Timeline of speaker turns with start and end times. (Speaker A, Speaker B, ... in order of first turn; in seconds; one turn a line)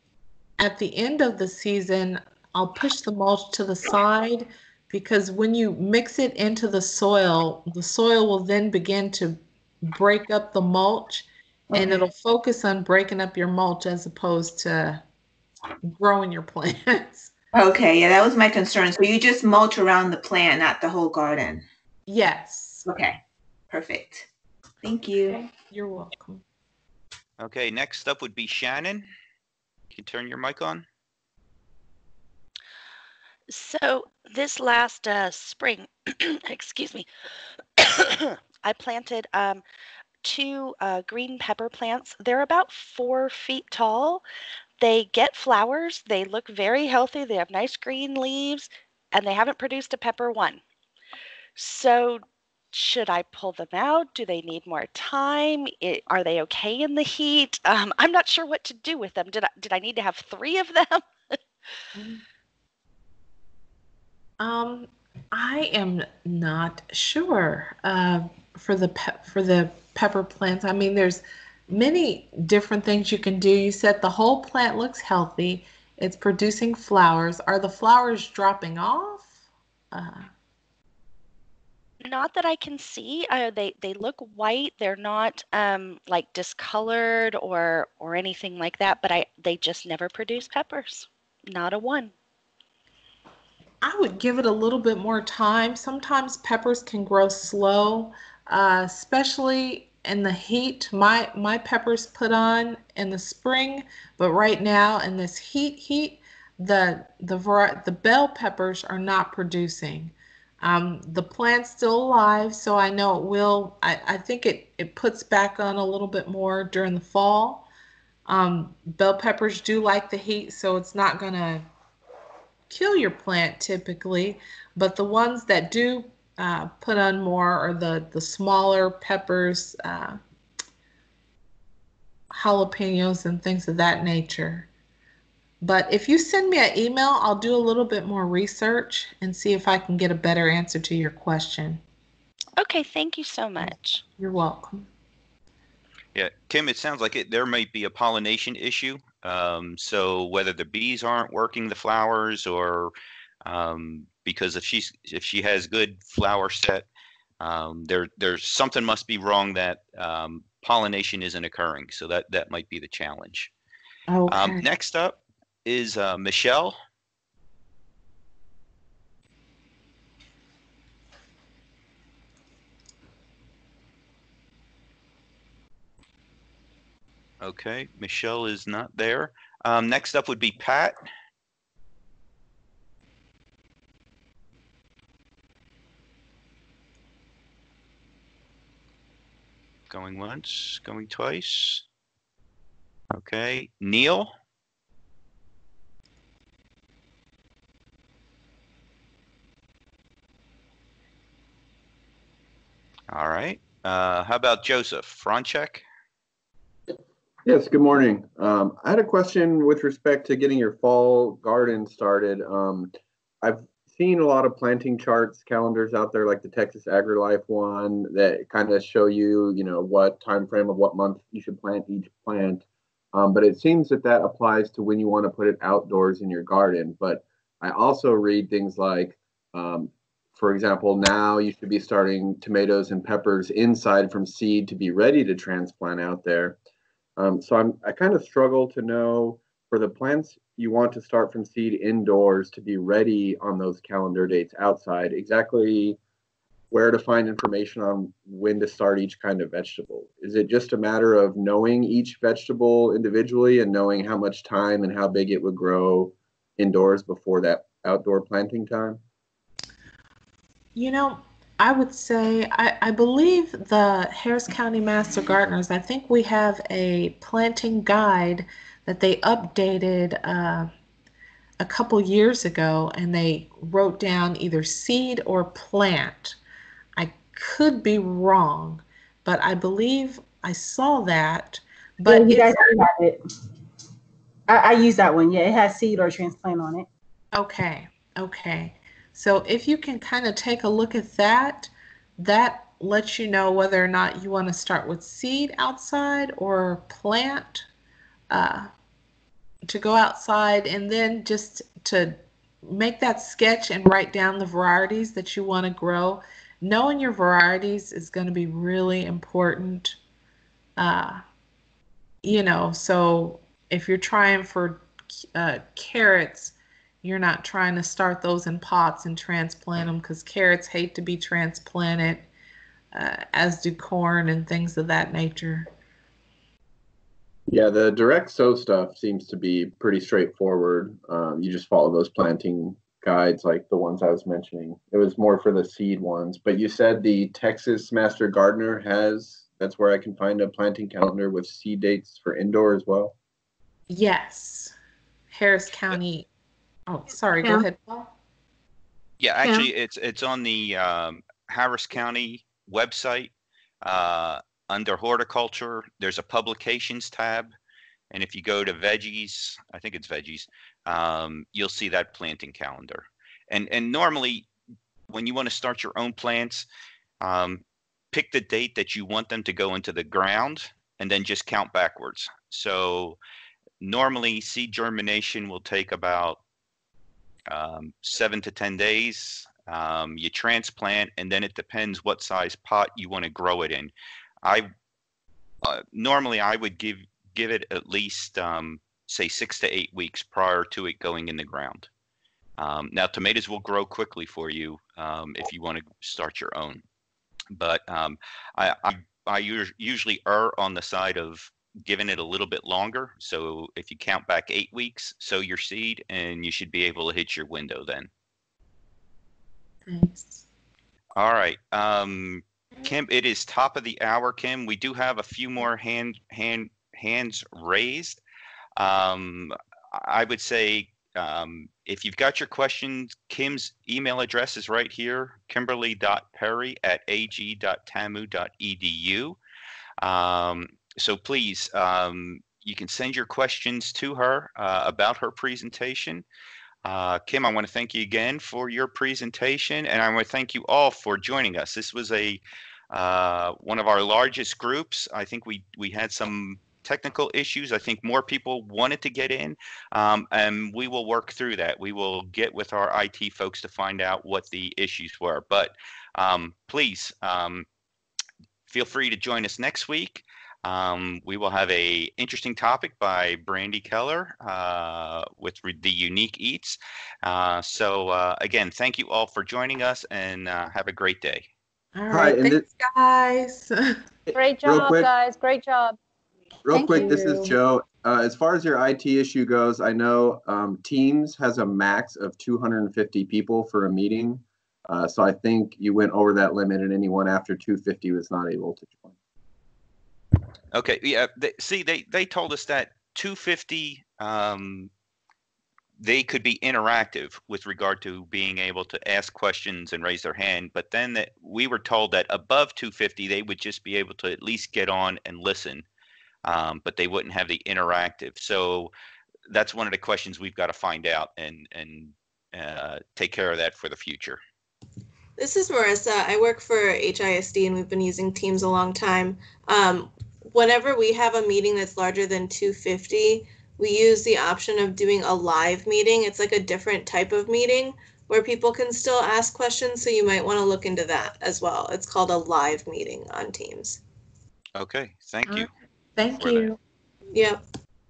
Speaker A: 0.6-15.0
Speaker B: 11.7-12.0
Speaker A: 15.8-17.3
Speaker B: 17.5-21.6
Speaker A: 22.1-22.9
Speaker B: 22.9-23.2
Speaker B: 23.7-24.3
Speaker B: 24.8-25.5
Speaker A: 25.3-26.4
Speaker C: 27.4-29.1
Speaker C: 29.9-30.9
Speaker D: 33.5-37.1
Speaker D: 37.8-39.6
Speaker D: 40.2-44.2
Speaker D: 44.8-50.6
Speaker D: 51.6-61.4
Speaker A: 62.0-62.2
Speaker A: 64.4-79.3
Speaker A: 79.9-80.3
Speaker D: 82.0-92.1
Speaker A: 93.8-117.7
Speaker A: 118.3-121.7
Speaker A: 122.7-130.2
Speaker A: 132.3-134.7
Speaker A: 135.6-141.8
Speaker D: 142.6-144.0
Speaker A: 143.6-144.8
Speaker C: 146.2-152.9
Speaker C: 153.4-156.9
Speaker C: 157.4-163.5
Speaker A: 164.1-164.7
Speaker C: 164.3-166.8
Speaker C: 177.4-181.0
Speaker C: 189.9-191.8
Speaker C: 193.1-194.3
Speaker C: 203.1-205.8
Speaker E: 207.4-236.6
Speaker E: 237.2-246.0
Speaker E: 246.7-259.0
Speaker A: 260.8-270.7
Speaker A: 271.6-276.4
Speaker A: 277.0-282.6
Speaker F: 282.1-283.2
Speaker F: 284.5-286.9
Speaker A: 287.4-297.7
Speaker A: 298.3-298.7
Speaker A: 299.7-310.0
Speaker A: 310.8-311.2
Speaker A: 312.2-322.3
Speaker A: 322.9-325.7
Speaker E: 327.5-343.1
Speaker A: 343.9-344.7
Speaker A: 345.3-346.3
Speaker A: 346.9-348.1
Speaker C: 349.2-353.3
Speaker C: 353.8-357.5
Speaker C: 358.1-364.5
Speaker C: 365.1-366.7
Speaker C: 367.2-373.2
Speaker C: 373.8-376.4
Speaker C: 377.5-383.9
Speaker C: 385.6-391.9
Speaker C: 392.6-396.8
Speaker C: 397.5-408.1
Speaker A: 409.9-410.4
Speaker C: 411.2-418.2
Speaker C: 418.8-429.4
Speaker C: 430.0-436.2
Speaker C: 436.9-457.7
Speaker C: 458.7-471.5
Speaker A: 471.9-473.9
Speaker E: 472.1-472.6
Speaker E: 474.3-475.1
Speaker G: 474.3-476.0
Speaker E: 476.7-489.1
Speaker G: 476.7-477.4
Speaker A: 476.9-477.5
Speaker C: 490.7-494.9
Speaker C: 496.0-505.9
Speaker C: 506.4-508.9
Speaker C: 509.5-514.4
Speaker H: 515.4-534.0
Speaker C: 534.8-535.7
Speaker A: 535.5-536.8
Speaker C: 536.3-536.7
Speaker H: 537.3-537.6